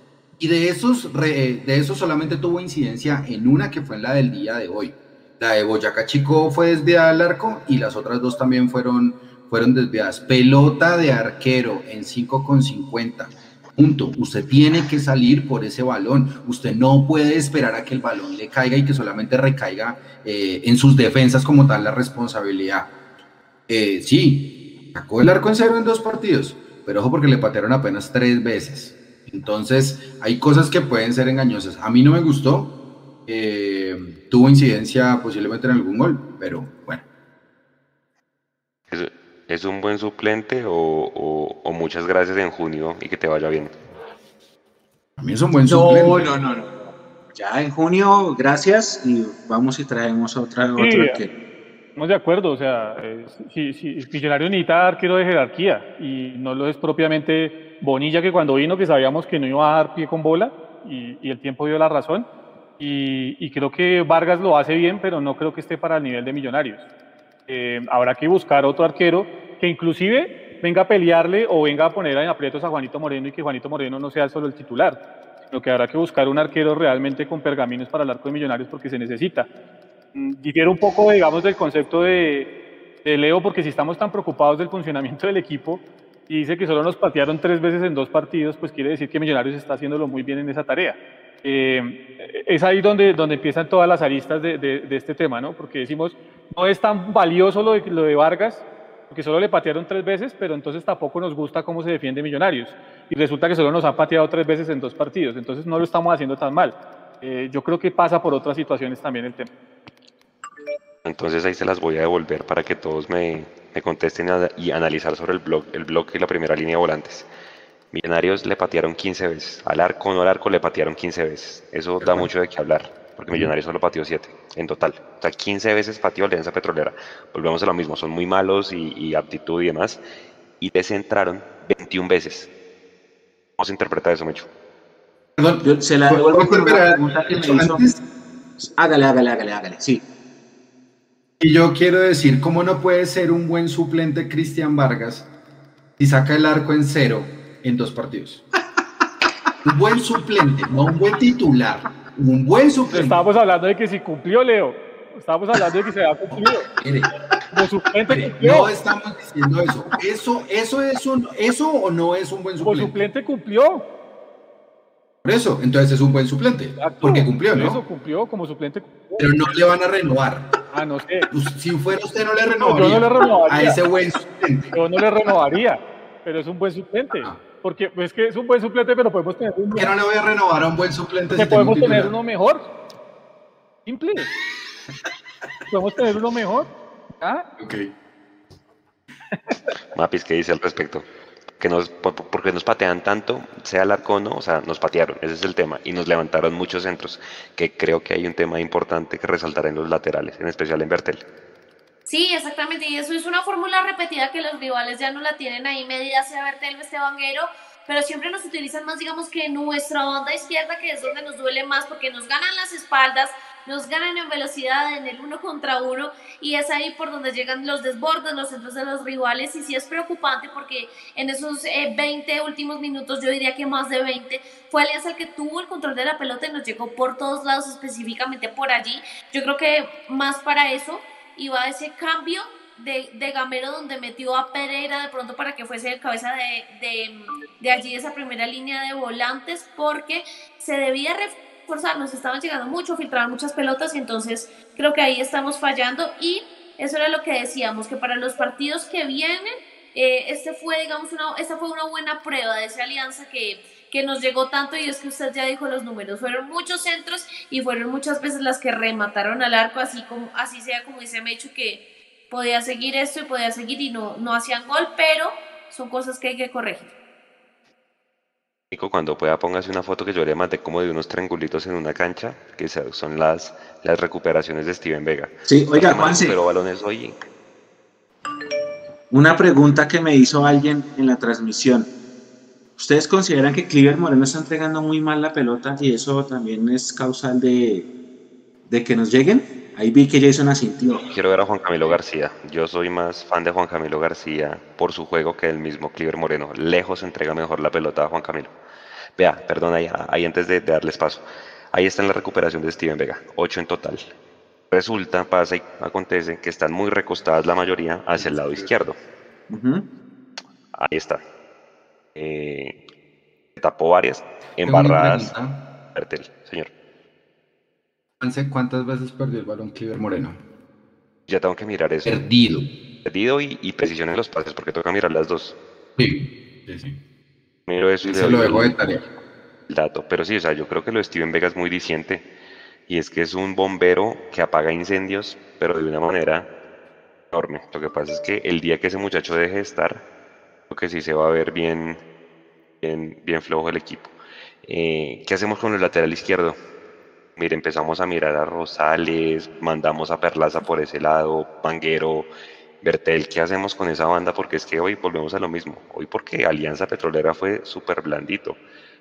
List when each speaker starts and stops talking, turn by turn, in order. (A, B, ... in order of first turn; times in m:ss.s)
0:00.4-0:22.9 A
0:23.7-0:37.0 A
0:38.9-0:43.7 B
0:45.2-0:46.4 A
0:45.7-0:51.3 C
0:50.8-0:51.2 D
0:52.0-1:02.3 D
1:02.8-1:06.8 D
1:07.5-1:15.0 D
1:15.5-1:19.5 D
1:20.1-1:22.5 D
1:23.0-1:49.5 D
1:51.0-1:57.3 B
1:57.9-2:10.0 B
2:02.0-2:02.3 A
2:10.6-2:12.5 B
2:13.6-2:14.5 B
2:15.4-2:18.0 A
2:15.6-2:17.9 C
2:18.6-2:20.0 C
2:21.4-2:25.3 A
2:26.0-2:28.4 A
2:29.6-2:33.2 A
2:32.9-2:36.7 D
2:36.3-2:37.1 A
2:37.5-2:38.7 D
2:38.1-2:43.0 A
2:42.6-2:43.8 D
2:45.2-2:47.8 A
2:46.8-2:49.3 D
2:49.2-2:50.5 A
2:50.7-2:51.3 D
2:51.3-2:54.7 A
2:52.6-2:53.8 D
2:54.7-2:59.9 D
2:59.7-3:02.1 A
3:01.3-3:02.7 D
3:03.9-3:04.3 D
3:05.7-3:07.4 D
3:07.6-3:07.9 A
3:10.0-3:11.1 B
3:11.6-3:21.2 B
3:22.1-4:26.9 E
4:28.7-4:37.2 B
4:35.5-4:36.4 C
4:39.1-4:41.9 C
4:42.8-4:47.9 C
4:48.7-4:51.1 C
4:51.1-4:58.5 B
4:59.2-5:04.0 B
5:04.7-5:09.0 B
5:08.2-5:08.7 A
5:09.5-5:09.9 C
5:10.8-5:11.2 B
5:12.2-5:12.8 B
5:13.6-5:15.4 B
5:14.6-5:15.6 A
5:15.9-5:16.7 B
5:18.2-5:20.4 A
5:21.3-5:22.2 B
5:22.0-5:22.8 A
5:23.0-5:25.6 B
5:26.0-5:27.0 A
5:27.7-5:28.8 B
5:28.0-5:29.0 A
5:29.7-5:32.3 B
5:32.9-5:36.5 B
5:37.3-5:40.0 B
5:40.7-5:42.0 B
5:42.8-5:44.1 B
5:44.6-5:46.6 B
5:47.4-5:52.3 B
5:52.8-5:58.6 B